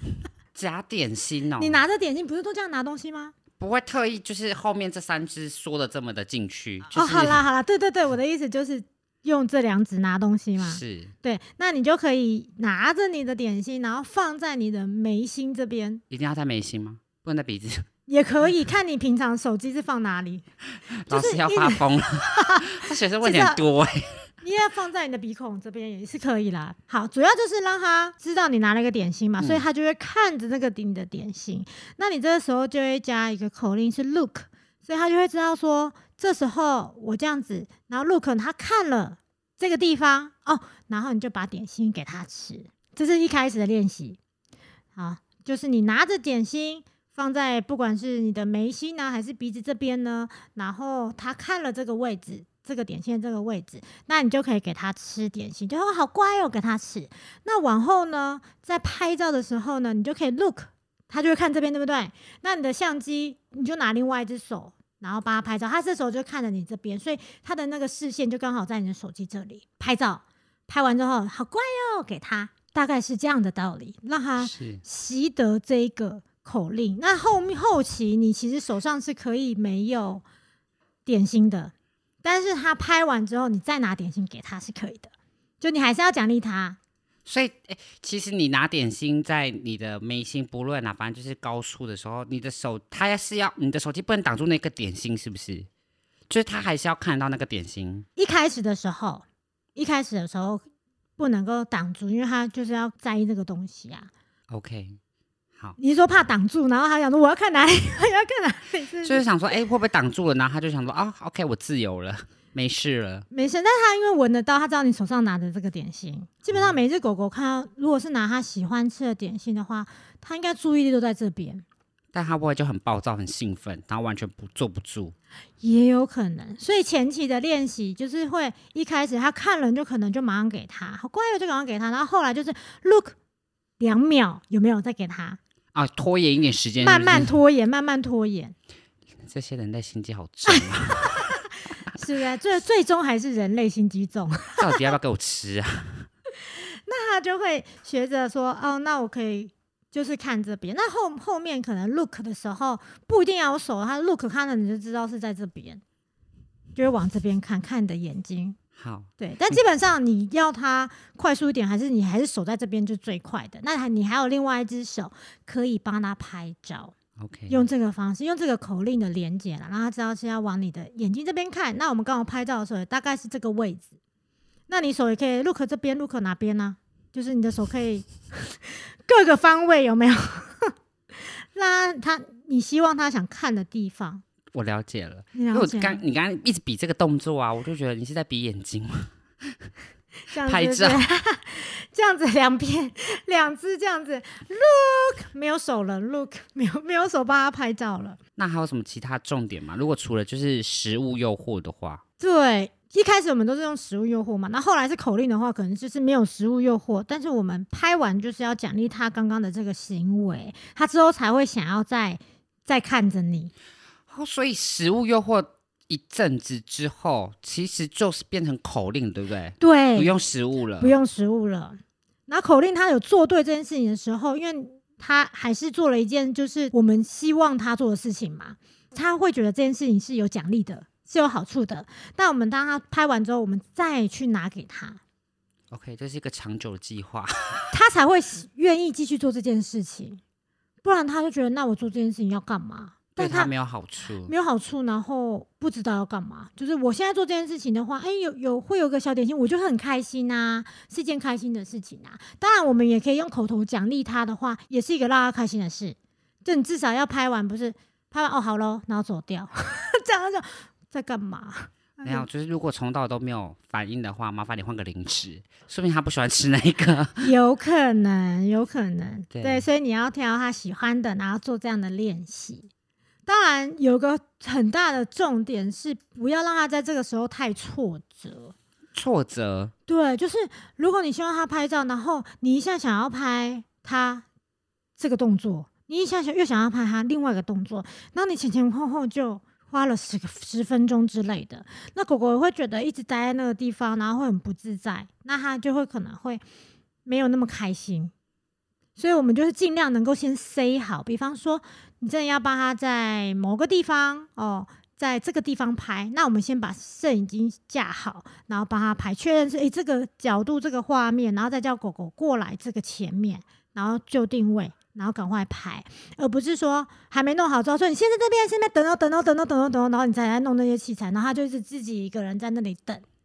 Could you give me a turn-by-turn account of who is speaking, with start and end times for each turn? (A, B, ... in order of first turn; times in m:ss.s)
0:00.5-0:01.8 A
0:01.6-0:03.3 B
0:03.6-0:07.4 A
0:06.9-0:16.0 B
0:10.6-0:11.1 A
0:16.1-0:17.9 A
0:18.1-0:20.4 B
0:20.9-0:24.3 A
0:21.1-0:23.6 B
0:24.4-0:44.2 B
0:29.4-0:29.6 A
0:45.0-1:20.2 B
1:14.4-1:14.8 A
1:21.0-1:21.7 B
1:22.2-1:26.8 B
1:27.2-1:35.7 A
1:36.3-1:38.0 A
1:38.2-1:40.6 B
1:41.2-1:44.1 B
1:44.5-1:45.0 A
1:45.8-1:49.2 B
1:49.0-1:53.2 A
1:53.3-2:01.6 B
2:02.1-2:05.1 A
2:05.6-2:13.1 B
2:13.8-2:15.4 B
2:15.7-2:17.3 A
2:16.8-2:18.5 B
2:19.2-2:21.3 A
2:20.5-2:24.9 B
2:24.6-2:26.1 A
2:26.5-2:35.8 B
2:36.8-2:38.6 B
2:38.8-2:39.6 A
2:39.2-2:46.9 B
2:47.2-2:47.6 A
2:47.5-2:53.9 B
2:54.7-3:04.2 B
3:04.5-3:09.7 A
3:05.3-3:06.0 B
3:10.3-3:18.2 B
3:10.3-3:11.0 A
3:18.4-3:22.0 A
3:22.2-3:33.5 B
3:34.1-3:41.0 A
3:39.6-3:40.1 B
3:40.8-3:55.0 B
3:55.7-3:57.7 A
3:57.7-4:00.2 B
4:00.8-4:03.5 B
4:03.2-4:04.3 A
4:04.3-4:22.2 B
4:22.0-4:27.3 A
4:27.2-4:32.7 B
4:29.3-4:29.7 A
4:33.3-4:38.5 B
4:38.9-4:39.7 A
4:39.9-4:44.2 B
4:45.0-4:56.4 B
4:57.0-4:58.1 B
4:59.0-5:23.0 B